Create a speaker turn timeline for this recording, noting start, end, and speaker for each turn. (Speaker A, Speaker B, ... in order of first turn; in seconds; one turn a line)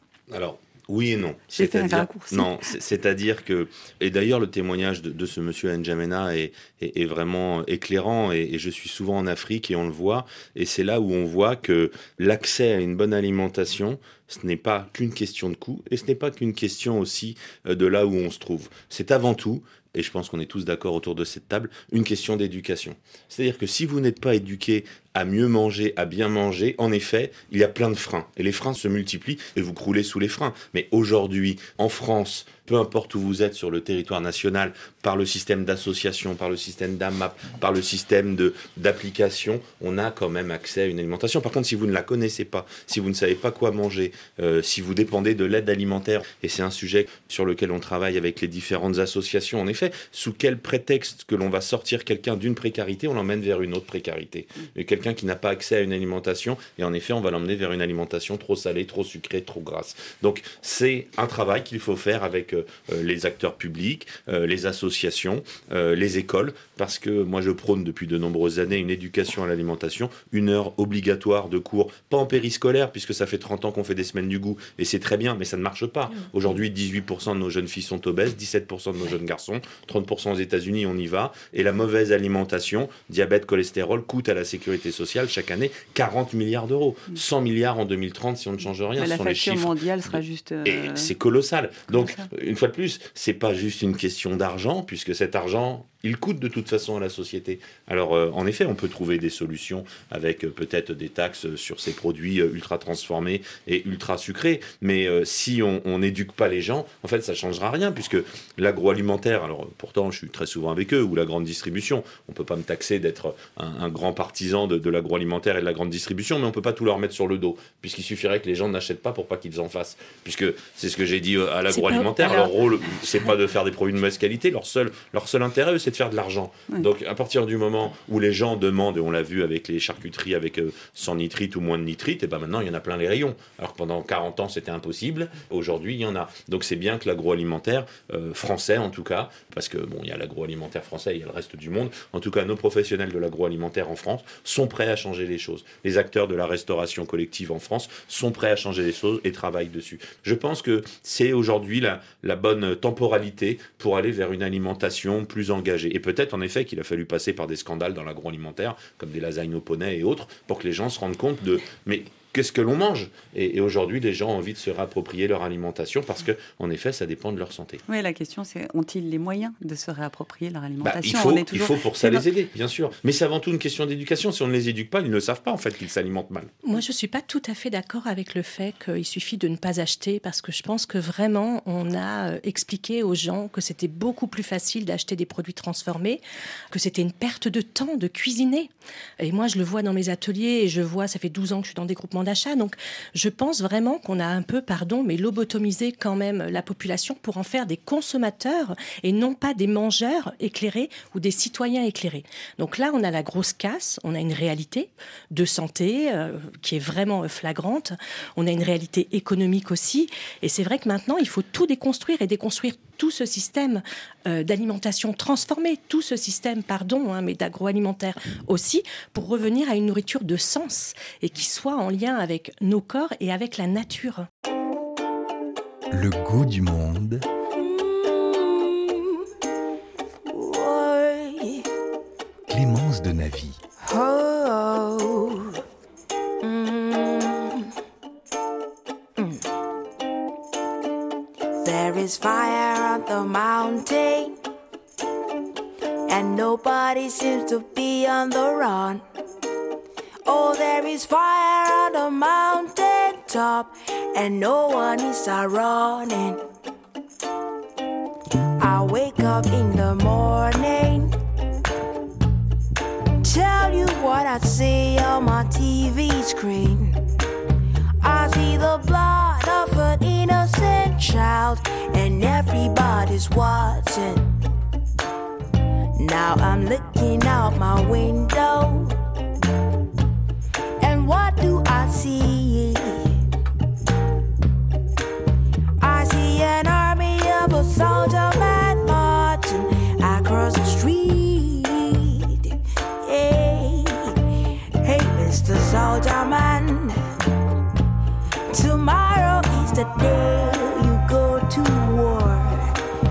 Speaker A: 0.3-90.1
Speaker B: 1.5-2.6
Speaker B: 89.0-91.1
Speaker A: 90.7-167.8
Speaker B: 91.9-92.3
Speaker C: 121.7-122.5
Speaker B: 167.9-172.2
Speaker A: 170.8-176.5
Speaker C: 176.6-186.2
Speaker C: 186.7-188.7
Speaker C: 189.2-224.3
Speaker D: 225.9-227.2
Speaker E: 227.5-229.0
Speaker E: 230.3-231.7
Speaker D: 232.5-233.6
Speaker E: 233.8-235.5
Speaker E: 236.4-237.7
Speaker E: 239.2-239.4
Speaker E: 241.6-244.4
Speaker E: 246.1-249.0
Speaker E: 250.2-256.4
Speaker E: 258.6-261.1
Speaker E: 263.2-267.0
Speaker E: 268.0-274.3
Speaker E: 275.9-279.0
Speaker E: 280.8-283.2
Speaker E: 285.8-297.0
Speaker E: 298.5-302.8